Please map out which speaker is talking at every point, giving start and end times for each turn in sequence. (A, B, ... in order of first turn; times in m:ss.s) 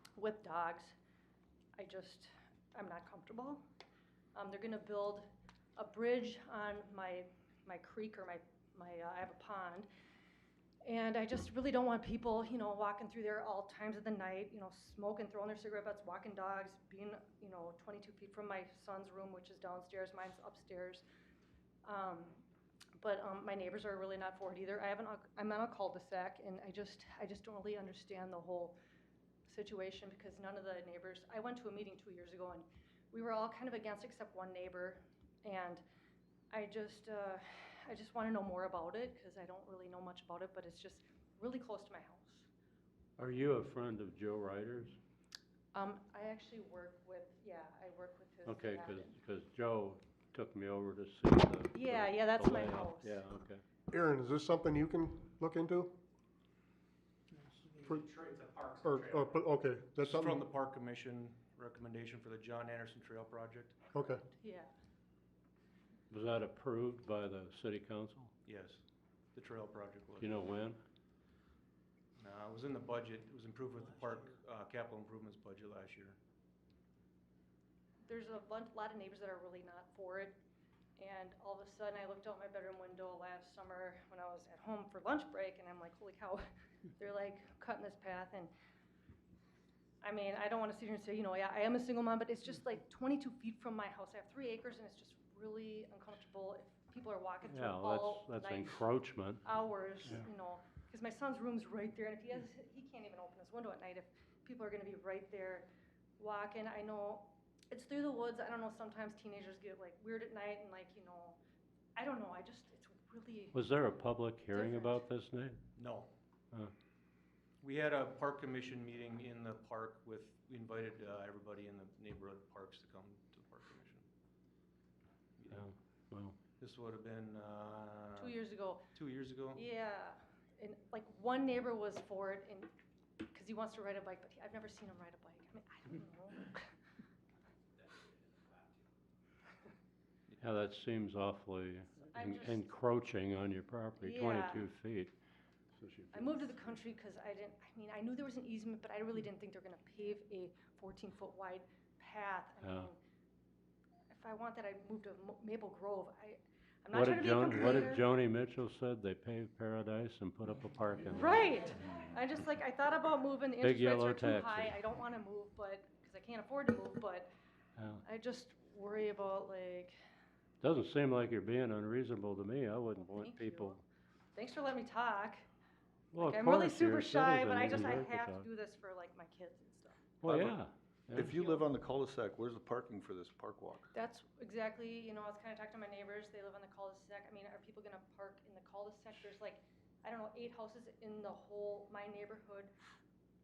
0:00.2-0:01.0 A
0:01.8-0:03.6 A
0:04.4-0:05.3 A
0:05.8-0:09.9 A
0:10.8-0:21.0 A
0:21.8-0:22.4 A
0:23.0-0:28.8 A
0:29.5-0:35.8 A
0:36.5-0:42.5 A
0:43.2-0:45.0 B
0:45.7-0:49.1 A
0:48.5-0:53.6 B
0:51.7-0:53.2 A
0:53.9-0:56.0 C
0:57.4-0:59.4 D
0:58.8-1:00.4 C
1:00.0-1:03.9 D
1:04.0-1:04.2 C
1:04.2-1:04.7 A
1:06.1-1:08.3 B
1:08.5-1:08.8 D
1:09.4-1:10.3 D
1:10.2-1:10.8 B
1:12.2-1:16.2 D
1:18.0-1:20.4 A
1:21.0-1:26.4 A
1:27.0-1:28.5 A
1:30.0-1:38.8 A
1:37.5-1:39.4 B
1:39.4-1:45.7 A
1:46.2-1:51.4 A
1:52.0-1:53.6 A
1:53.5-1:55.6 B
1:54.5-1:55.0 A
1:55.8-1:56.1 D
1:57.6-2:04.0 D
2:05.4-2:05.6 D
2:05.5-2:06.4 B
2:06.6-2:08.4 D
2:08.2-2:08.9 A
2:08.9-2:09.6 D
2:09.5-2:16.7 A
2:20.4-2:25.2 B
2:22.1-2:22.7 A
2:24.0-2:24.6 A
2:25.8-2:26.6 B
2:26.1-2:33.0 A
2:32.6-2:32.9 B
2:34.1-2:38.0 A
2:36.9-2:41.4 B
2:41.2-2:47.3 A
2:43.6-2:44.8 B
2:47.8-2:48.0 B
2:48.0-2:50.0 A
2:50.6-2:53.8 B
2:53.0-2:53.8 A
2:54.4-2:55.4 A
2:56.1-2:58.5 B
2:56.2-3:00.0 A
3:00.2-3:01.3 B
3:00.3-3:00.6 E
3:01.1-3:03.9 E
3:01.2-3:01.7 A
3:03.9-3:12.7 A